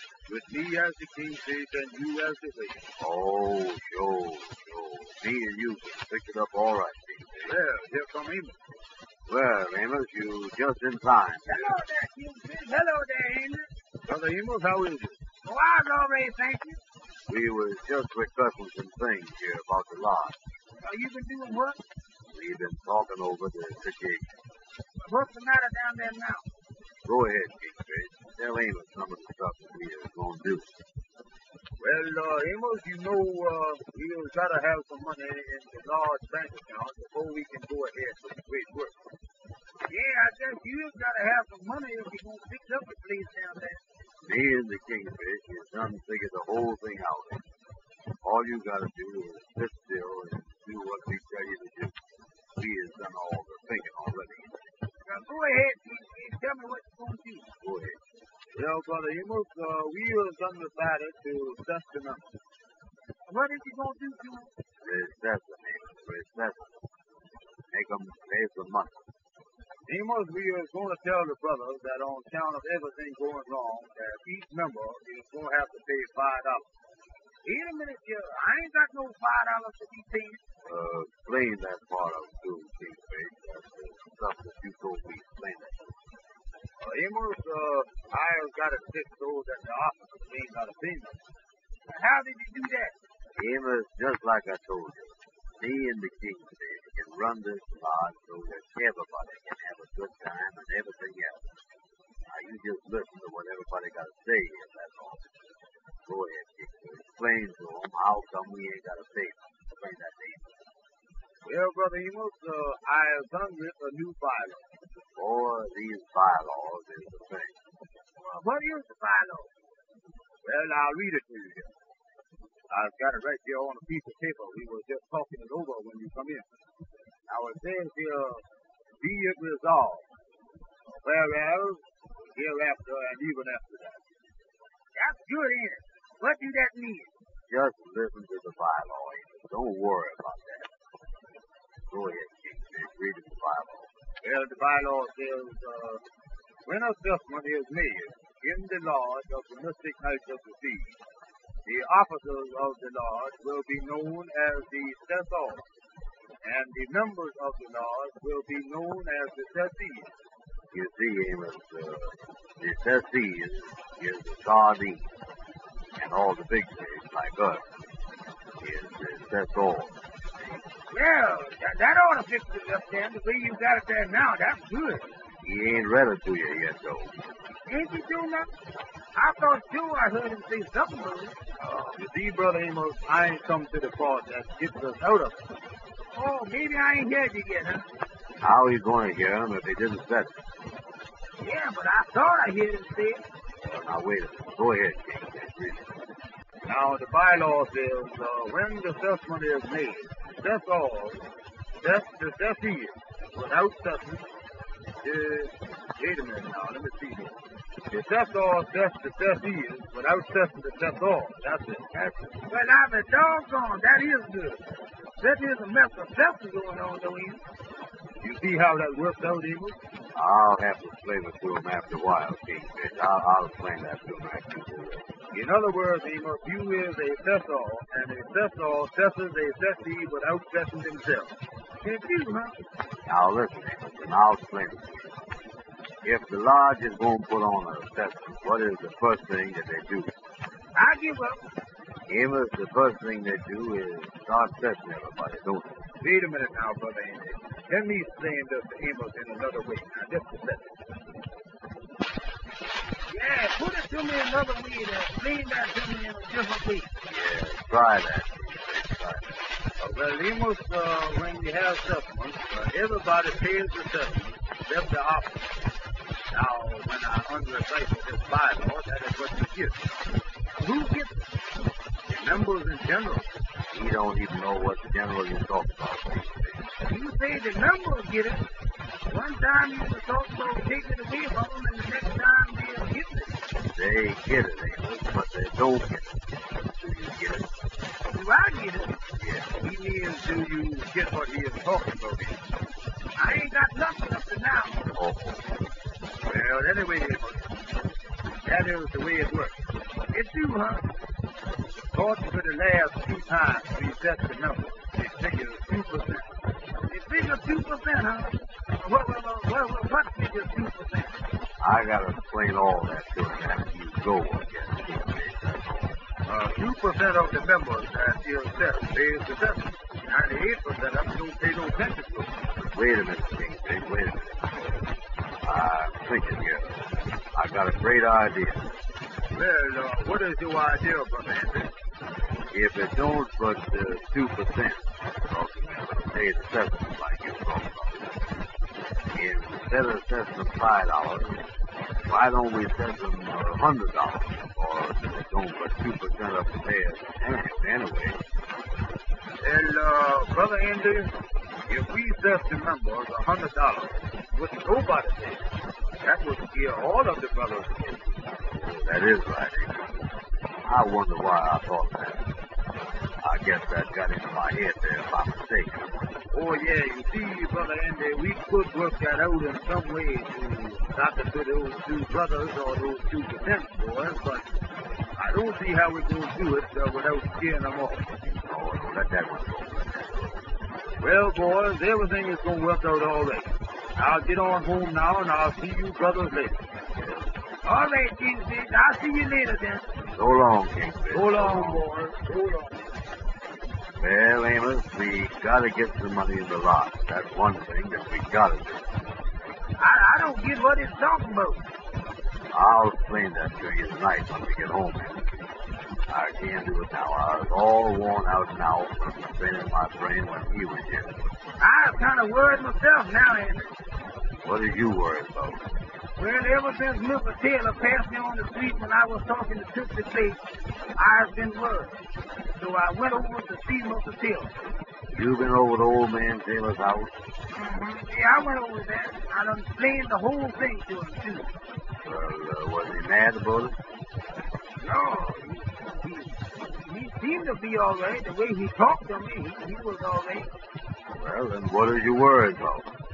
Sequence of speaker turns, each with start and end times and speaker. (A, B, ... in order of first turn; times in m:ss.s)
0:00.3-0:02.8 A
0:03.0-0:07.5 B
0:07.4-0:08.6 A
0:09.3-0:11.8 B
0:11.5-0:13.7 C
0:14.0-0:15.2 A
0:15.4-0:16.8 C
0:17.3-0:20.4 B
0:20.8-0:21.8 C
0:22.3-0:24.4 B
0:25.0-0:26.5 C
0:27.0-0:30.7 B
0:31.8-0:38.9 A
0:39.9-0:43.8 C
0:44.2-0:47.4 B
0:48.2-0:52.0 B
0:52.6-0:54.6 B
0:55.1-0:57.5 C
0:57.6-0:58.0 B
0:58.5-1:02.3 A
1:03.3-1:04.5 C
1:04.8-1:06.7 B
1:07.7-1:09.0 B
1:09.9-1:16.7 A
1:17.4-1:20.4 C
1:20.6-1:25.8 B
1:26.8-1:31.2 A
1:31.9-1:32.9 C
1:33.4-1:41.4 B
1:42.3-1:45.2 B
1:46.0-1:50.5 B
1:51.4-1:54.7 A
1:55.1-1:57.6 B
1:58.2-1:59.5 C
2:00.4-2:01.7 A
2:02.7-2:06.4 A
2:07.3-2:08.4 A
2:09.0-2:10.1 A
2:10.9-2:14.0 A
2:14.9-2:17.1 C
2:17.5-2:20.7 B
2:21.9-2:23.9 B
2:24.2-2:26.0 A
2:26.6-2:31.0 A
2:31.6-2:35.6 A
2:36.4-2:40.1 A
2:40.7-2:45.1 B
2:46.0-2:47.6 B
2:48.6-2:50.0 B
2:50.9-2:55.1 C
2:55.4-2:57.2 B
2:57.7-2:58.5 C
2:59.1-3:01.4 C
3:01.6-3:05.5 A
3:06.1-3:07.9 C
3:08.4-3:10.4 B
3:11.4-3:13.2 C
3:13.6-3:15.9 B
3:16.6-3:21.2 A
3:21.8-3:24.2 A
3:25.0-3:27.4 A
3:27.9-3:31.9 A
3:31.9-3:32.4 B
3:32.5-3:34.6 C
3:35.2-3:37.4 C
3:38.2-3:39.8 A
3:40.1-3:45.1 B
3:45.3-3:51.3 A
3:51.8-3:52.6 C
3:53.1-3:55.2 B
3:56.0-4:00.1 B
4:00.7-4:01.4 C
4:02.1-4:05.8 B
4:06.0-4:10.8 A
4:13.1-4:16.9 C
4:17.0-4:19.4 B
4:19.8-4:25.5 A
4:26.3-4:29.9 A
4:30.6-4:31.3 C
4:32.1-4:33.3 A
4:33.7-4:36.7 B
4:36.9-4:38.5 C
4:39.1-4:43.4 C
4:43.7-4:47.5 B
4:48.1-4:49.0 C
4:49.2-4:49.5 B
4:49.6-4:52.4 A
4:53.2-4:54.8 C
4:54.9-4:55.5 B
4:56.2-4:57.5 A
4:58.4-4:59.6 A
5:00.1-5:00.9 C
5:01.9-5:06.3 A
5:06.9-5:11.1 C
5:11.6-5:16.0 B
5:16.2-5:22.3 A
5:22.6-5:24.5 B
5:25.4-5:28.7 B
5:29.3-5:31.7 A
5:32.5-5:38.2 B
5:39.1-5:41.4 B
5:42.0-5:48.2 B
5:49.4-5:51.1 A
5:51.7-5:55.4 A
5:56.0-5:58.2 A
5:58.5-6:00.0 B
6:00.6-6:02.3 B
6:03.2-6:06.1 B
6:06.3-6:14.5 A
6:15.2-6:18.1 A
6:18.2-6:20.4 B
6:21.0-6:26.6 A
6:26.9-6:27.3 B
6:27.6-6:29.9 C
6:30.0-6:31.8 B
6:31.1-6:32.8 A
6:34.0-6:38.9 B
6:39.8-6:41.6 C
6:42.5-6:45.3 B
6:46.1-6:51.1 B
6:51.6-6:53.7 C
6:54.4-6:55.6 B
6:56.2-7:00.4 C
7:01.0-7:02.0 C
7:02.6-7:04.5 C
7:05.1-7:07.2 B
7:07.5-7:11.5 C
7:12.0-7:13.8 B
7:14.8-7:20.5 C
7:21.1-7:22.9 B